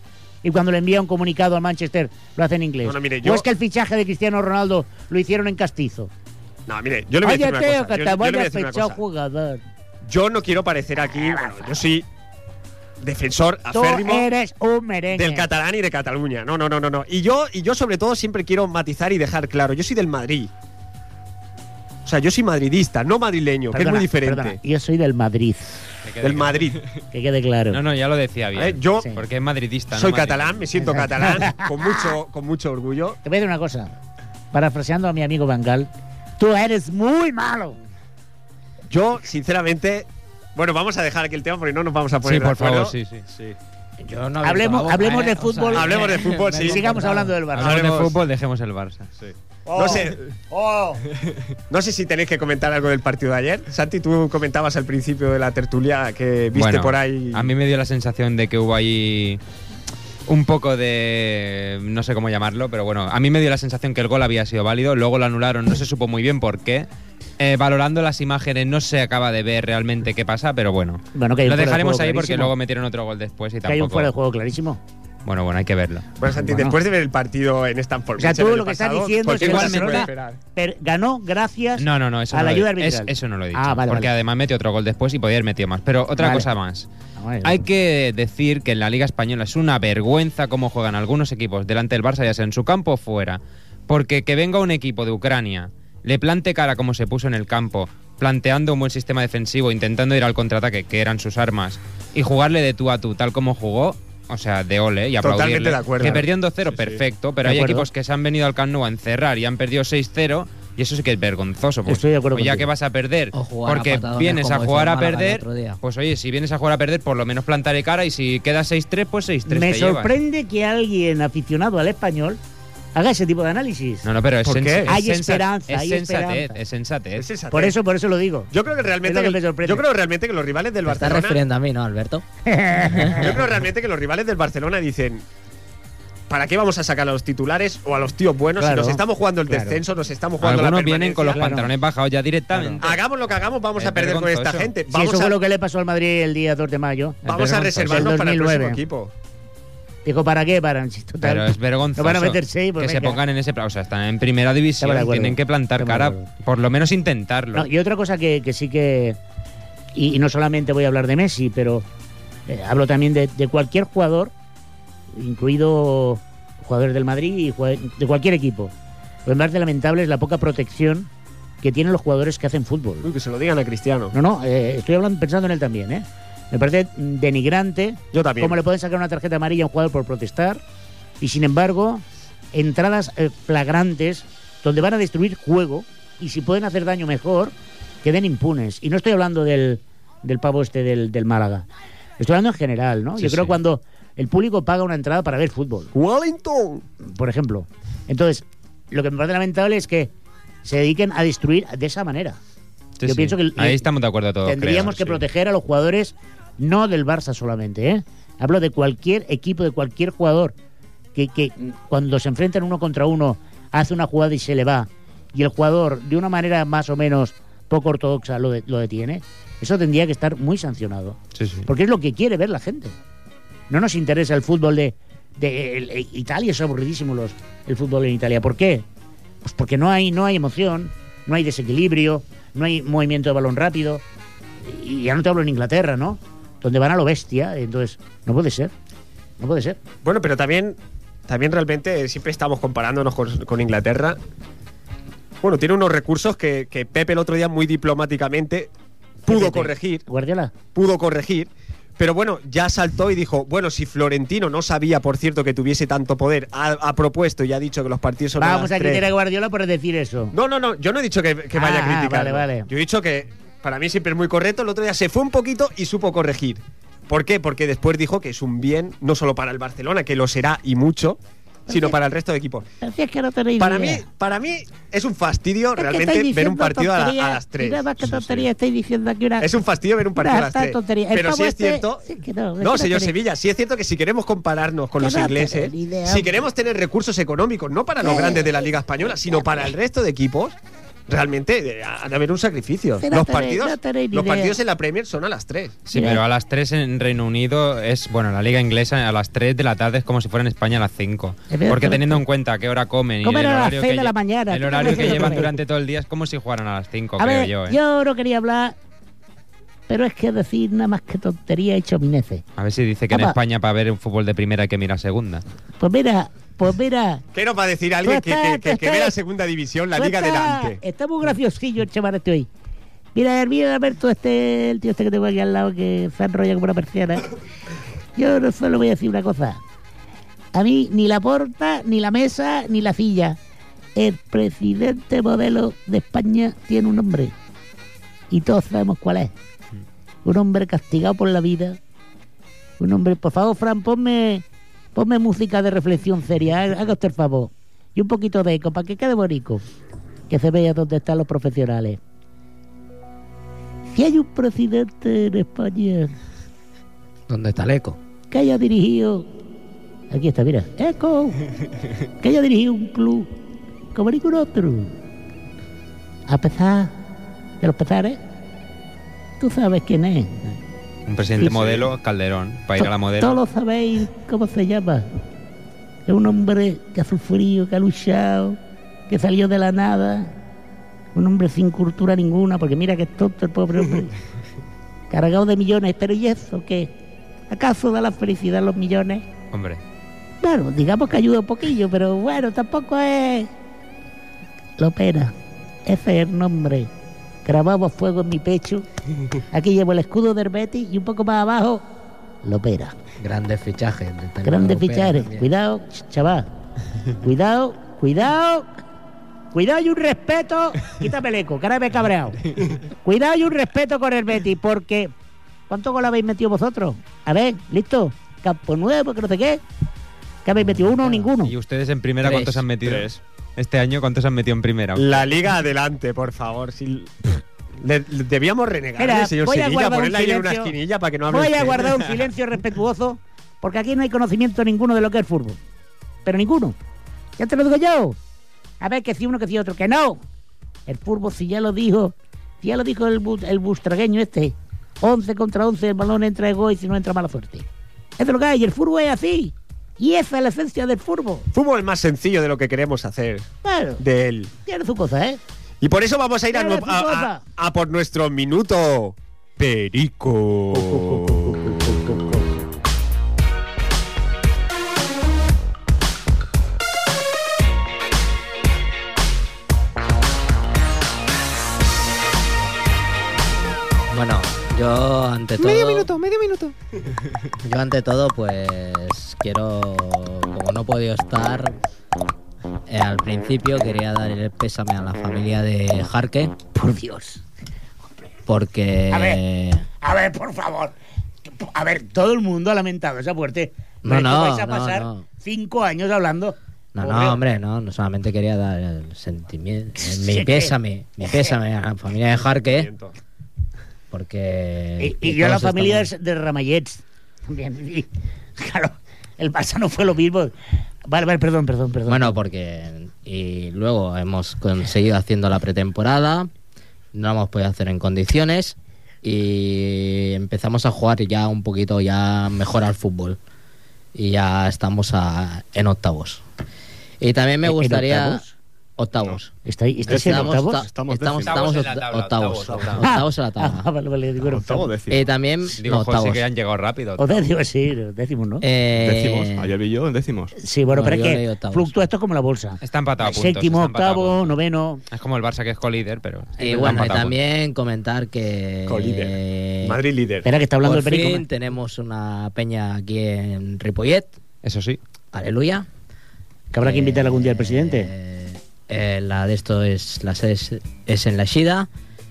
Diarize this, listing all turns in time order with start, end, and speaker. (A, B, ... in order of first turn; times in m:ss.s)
0:00.4-0:06.1 A
0:02.8-0:03.5 B
0:06.7-0:09.0 B
0:07.2-0:09.6 A
0:10.0-0:12.1 B
0:11.1-0:11.8 A
0:13.0-0:14.3 B
0:13.7-0:15.5 A
0:15.1-0:20.5 B
0:22.0-0:24.6 B
0:23.7-0:25.8 A
0:26.0-0:26.8 C
0:26.2-0:26.8 B
0:27.1-0:27.8 A
0:27.7-0:30.6 C
0:28.6-0:29.1 B
0:29.9-0:33.2 B
0:30.8-0:32.1 A
0:33.2-0:34.0 A
0:34.5-0:37.8 A
0:38.9-0:43.0 B
0:42.2-0:43.2 C
0:43.3-0:43.6 D
0:44.0-0:47.4 E
0:44.4-0:47.9 A
0:45.7-0:48.2 B
0:47.5-0:49.1 C
0:49.7-0:51.0 A
0:49.7-0:50.2 B
0:51.7-0:57.5 B
0:56.6-0:59.4 C
1:00.3-1:06.9 C
1:07.4-1:14.1 C
1:11.1-1:12.5 A
1:13.7-1:14.8 A
1:15.2-1:16.1 C
1:16.2-1:20.4 B
1:16.4-1:16.8 A
1:18.2-1:24.1 A
1:19.4-1:20.1 C
1:21.8-1:26.9 C
1:26.2-1:26.5 A
1:27.2-1:27.7 A
1:27.4-2:00.1 C
1:45.2-1:46.3 B
1:46.7-1:47.0 D
1:47.4-1:47.9 A
1:51.9-1:52.7 A
1:53.3-1:55.8 E
1:59.5-2:02.4 A
2:02.9-2:04.1 A
2:04.0-2:07.3 C
2:04.4-2:05.0 B
2:04.9-2:06.6 A
2:07.2-2:07.8 B
2:07.5-2:08.5 A
2:08.5-2:11.4 B
2:09.0-2:09.8 A
2:10.9-2:12.2 E
2:12.5-2:13.3 A
2:12.8-2:13.3 E
2:13.2-2:15.2 B
2:16.3-2:21.4 B
2:18.6-2:19.8 A
2:20.4-2:23.0 C
2:21.3-2:21.7 A
2:22.5-2:22.9 A
2:22.8-2:25.4 B
2:23.8-2:24.7 C
2:24.9-2:28.8 A
2:27.2-2:29.1 B
2:27.3-2:28.1 C
2:30.0-2:33.2 A
2:31.2-2:37.7 C
2:34.8-2:36.3 A
2:37.5-2:39.2 A
2:39.9-2:41.9 A
2:42.5-2:44.3 A
2:45.1-2:48.7 A
2:49.3-2:51.1 A
2:51.6-2:53.1 A
2:53.0-2:54.2 B
2:54.1-3:00.6 A
2:58.1-2:58.6 B
3:01.2-3:11.7 A
3:12.2-3:15.9 A
3:13.2-3:13.6 C
3:15.9-3:16.8 B
3:17.0-3:20.1 A
3:20.6-3:22.4 A
3:23.0-3:25.2 C
3:23.0-3:23.9 A
3:24.4-3:30.5 A
3:31.2-3:43.0 A
3:41.4-3:41.7 C
3:43.7-3:48.8 A
3:49.4-3:54.0 A
3:54.6-3:58.7 A
3:59.4-3:59.8 A
4:00.0-4:04.2 B
4:05.4-4:08.7 B
4:09.2-4:10.0 B
4:09.3-4:10.5 A
4:10.8-4:19.1 B
4:18.4-4:20.4 A
4:20.3-4:32.7 B
4:21.6-4:22.7 A
4:31.7-4:32.0 A
4:32.8-4:34.1 A
4:33.6-4:38.5 B
4:35.8-4:39.5 A
4:39.4-4:42.1 B
4:40.2-4:43.1 A
4:42.6-4:50.6 B
4:45.0-4:46.4 A
4:48.0-4:48.5 A
4:51.1-4:55.8 B
4:53.0-4:54.6 A
4:55.9-5:07.8 C
4:55.9-4:56.2 A
5:01.5-5:02.2 A
5:03.2-5:05.5 A
5:07.2-5:08.8 A
5:09.9-5:12.4 A
5:12.6-5:15.4 C
5:13.1-5:13.4 A
5:15.8-5:17.2 A
5:17.3-5:20.8 B
5:18.0-5:19.2 A
5:20.0-5:22.5 A
5:23.2-5:27.3 A
5:28.2-5:29.6 A
5:30.5-5:33.4 A
5:34.0-5:37.3 A
5:38.3-5:39.3 A
5:40.2-5:41.8 A
5:42.8-5:44.4 A
5:45.0-5:49.6 A
5:50.3-5:52.0 A
5:53.9-5:56.1 A
5:57.3-5:58.0 E
5:58.3-5:59.3 A
6:00.1-6:01.4 A
6:02.2-6:03.3 A
6:03.9-6:04.9 A
6:06.3-6:06.9 A
6:07.6-6:08.2 A
6:09.4-6:10.4 A
6:11.1-6:13.4 C
6:11.4-6:11.8 A
6:12.8-6:15.1 A
6:16.1-6:18.6 A
6:19.1-6:20.3 A
6:21.1-6:24.1 A
6:25.1-6:26.9 A
6:27.5-6:29.3 A
6:29.5-6:29.8 C
6:30.4-6:33.5 A
6:34.8-6:35.3 A
6:35.9-6:36.9 A
6:37.4-6:38.9 A
6:39.5-6:41.8 A
6:42.4-6:43.0 A
6:43.2-6:45.5 E
6:44.4-6:46.5 A
6:47.2-6:48.7 A
6:49.5-6:55.1 A
6:55.7-6:59.6 A
7:00.4-7:01.6 A
7:01.4-7:05.3 C
7:02.2-7:02.6 E
7:05.0-7:12.1 B
7:09.0-7:10.8 A
7:11.3-7:15.6 A
7:16.2-7:16.8 A
7:17.4-7:18.2 A
7:18.8-7:20.2 A
7:20.9-7:27.7 A
7:28.2-7:31.5 A
7:31.5-7:33.5 B
7:33.6-7:34.0 A
7:34.0-7:34.5 B
7:34.6-7:35.4 A
7:35.8-7:41.8 B
7:36.5-7:37.4 A
7:40.7-7:42.6 A
7:54.1-7:56.2 E
7:57.6-8:01.8 E
8:02.9-8:06.6 E
8:06.8-8:07.4 A
8:08.5-8:09.9 E
8:09.1-8:09.4 A
8:10.0-8:10.9 A
8:11.5-8:17.4 A
8:14.0-8:15.2 E
8:17.0-8:22.9 E
8:20.0-8:21.5 A
8:22.6-8:23.2 B
8:24.1-8:26.1 E
8:25.0-8:30.5 A
8:31.1-8:32.4 A
8:32.1-8:36.5 E
8:37.1-8:43.4 E
8:44.2-8:46.4 E
8:47.2-8:48.4 E
8:47.6-8:48.5 A
8:49.0-8:49.5 E
8:49.6-8:50.8 A
8:50.1-8:51.8 D
8:50.1-8:53.9 E
8:51.4-8:53.1 C
8:52.7-8:53.0 D
8:53.0-8:54.9 A
8:54.4-8:55.3 D
8:55.1-8:56.4 E
8:55.8-8:57.5 C
8:57.2-8:58.6 A
8:58.6-8:59.7 E
8:58.9-9:00.5 D
9:00.6-9:05.0 A
9:00.9-9:01.9 E
9:02.8-9:04.6 C
9:05.1-9:07.4 C
9:06.6-9:10.0 E
9:08.9-9:10.5 B
9:10.4-9:11.5 A
9:10.8-9:14.4 E
9:14.6-9:15.0 C
9:15.3-9:15.9 E
9:16.7-9:18.1 A
9:16.8-9:21.9 E